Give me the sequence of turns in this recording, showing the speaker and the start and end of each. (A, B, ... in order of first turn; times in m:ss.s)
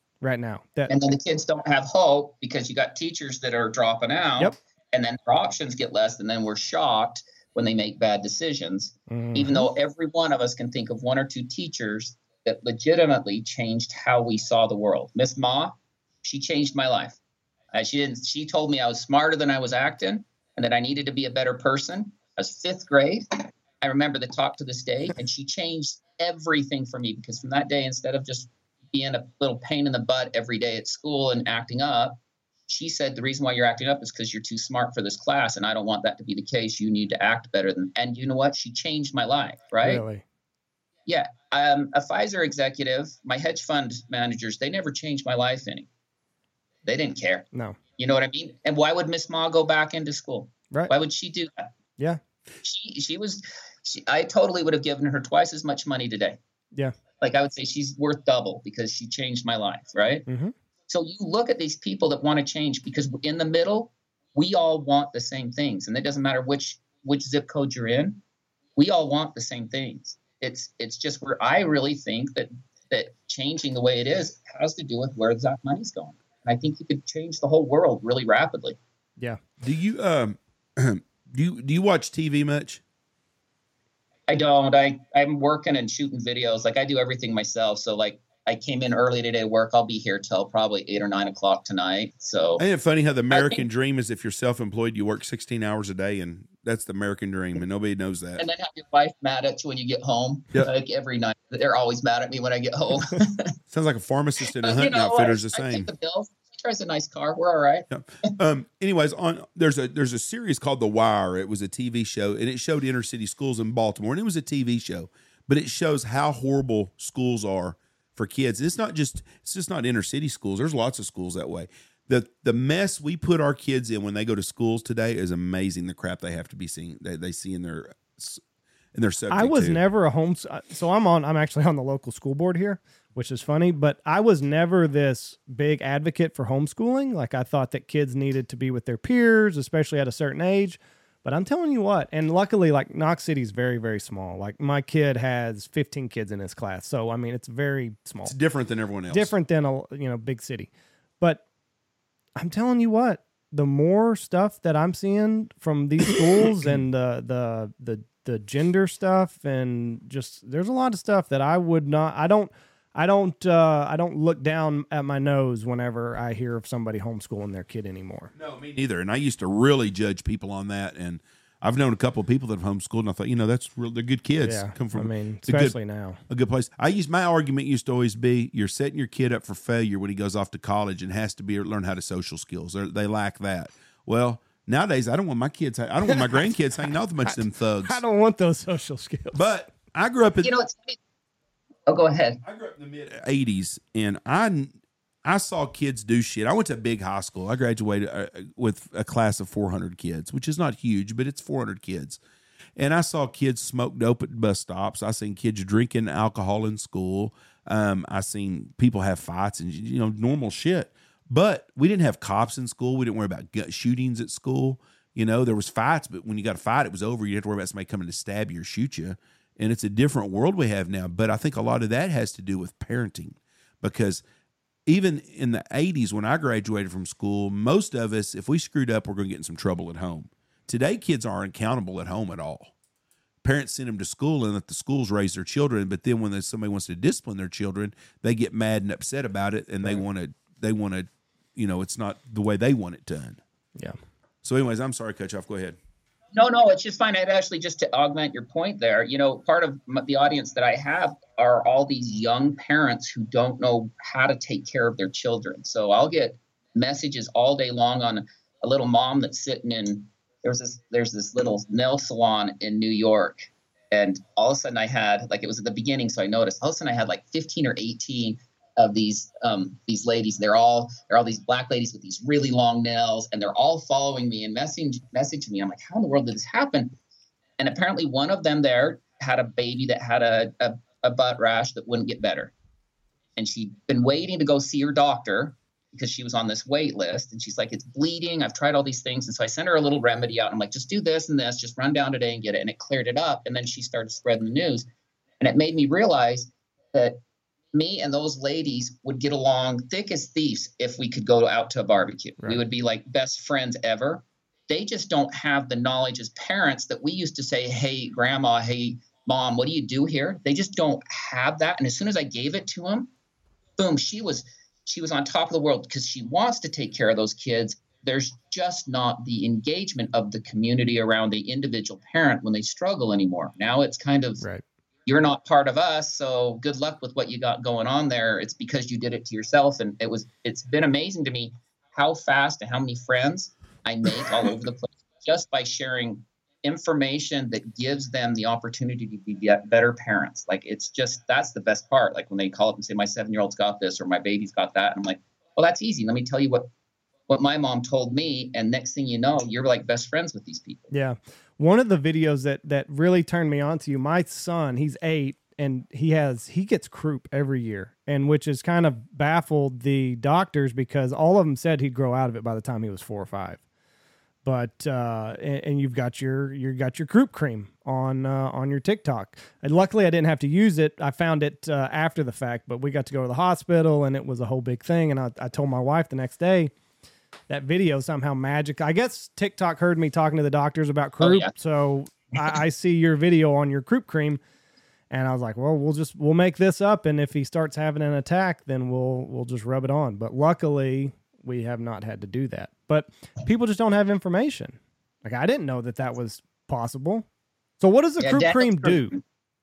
0:00.2-0:00.9 A
0:00.9-0:17.2 B
0:09.1-0:09.7 A
0:17.7-0:40.0 B
0:39.8-0:40.2 A
0:41.1-0:45.9 B
0:46.8-0:47.5 B
0:48.0-0:51.7 B
0:52.6-0:56.4 B
0:57.2-1:00.3 B
1:00.3-1:00.5 A
1:00.9-1:08.2 B
1:08.8-1:18.8 B
1:19.6-1:22.8 C
1:24.3-1:32.6 B
1:32.6-1:38.5 C
1:33.3-1:33.6 B
1:38.4-1:43.6 B
1:43.7-1:45.9 C
1:44.6-1:48.3 B
1:47.9-2:08.4 C
2:08.9-2:09.8 C
2:09.3-2:28.3 A
2:28.2-2:29.3 C
2:29.1-2:30.7 A
2:32.4-2:48.3 A
2:48.4-2:55.8 C
2:54.4-2:56.2 A
2:56.3-3:08.0 C
3:06.1-3:06.4 A
3:07.3-3:09.4 A
3:09.3-3:10.5 C
3:10.4-3:11.0 B
3:11.9-3:12.4 B
3:12.4-3:22.2 C
3:22.8-3:44.2 C
3:44.9-3:52.7 C
3:53.4-4:03.4 C
4:04.4-4:05.8 C
4:06.3-4:37.0 B
4:37.6-4:42.5 B
4:43.4-4:54.9 B
4:55.4-4:57.2 B
4:57.7-5:13.1 B
5:13.8-5:24.4 B
5:25.1-5:46.7 B
5:47.3-5:50.9 B
5:50.9-6:03.6 A
6:04.4-6:16.7 A
6:17.5-6:24.4 A
6:21.2-6:21.5 B
6:25.1-6:37.3 A
6:37.8-6:39.1 A
6:38.2-6:39.2 B